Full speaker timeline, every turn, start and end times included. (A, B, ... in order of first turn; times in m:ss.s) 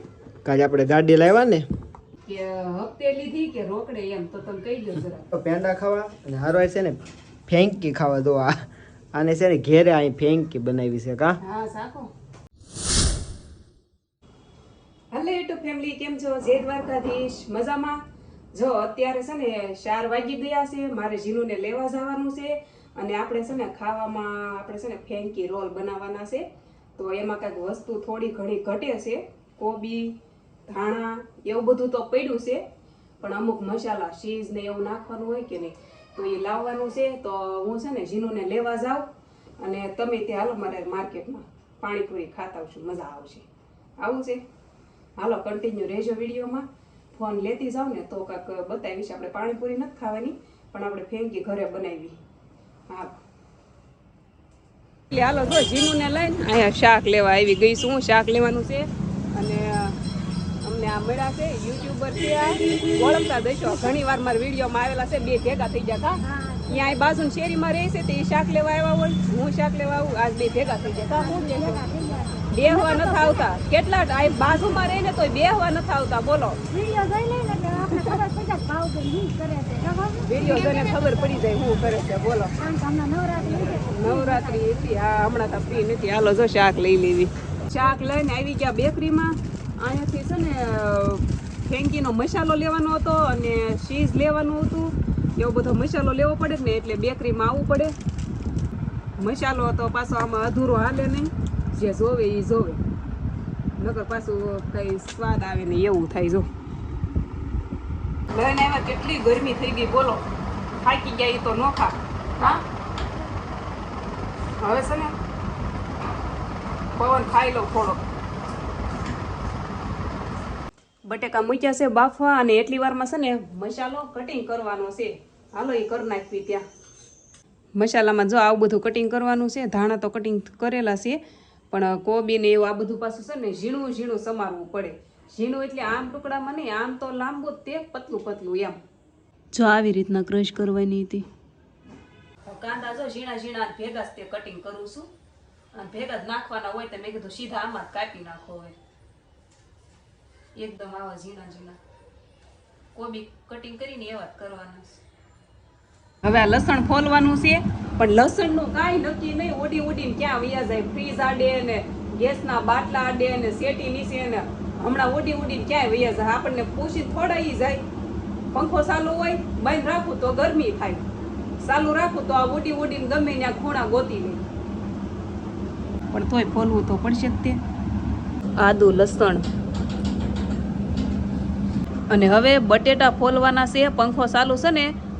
0:00.4-0:01.6 A
0:02.3-0:05.3 B
0:05.3-0:11.4 A
0:11.4-0:12.1 B
0:15.1-0:18.0 B
0:18.5-0:32.6 B
0:33.2-0:39.1 B
0:39.6-0:43.5 B
0:44.0-0:44.4 B
0:45.2-0:52.2 B
0:52.9-0:53.2 B
0:55.1-1:00.0 B
1:00.6-1:16.8 B
1:16.8-1:17.8 C
1:17.8-1:18.3 B
1:18.3-1:20.2 C
1:20.2-1:22.7 B
1:22.7-1:23.6 C
1:23.7-1:37.9 B
1:39.2-1:42.8 B
1:43.8-1:46.5 B
1:48.3-1:50.2 B
1:50.8-1:52.6 B
1:54.6-1:55.1 B
1:57.0-1:58.0 B
2:01.0-2:06.6 B
2:07.7-2:18.8 B
2:19.5-2:21.3 B
2:22.4-2:25.1 B
2:25.7-2:28.8 B
2:30.6-2:31.8 B
2:32.9-2:35.0 B
2:36.2-2:47.8 B
2:48.5-2:51.0 B
2:51.6-2:54.4 B
2:56.1-2:57.6 B
2:58.6-2:59.4 B
3:02.1-3:04.9 B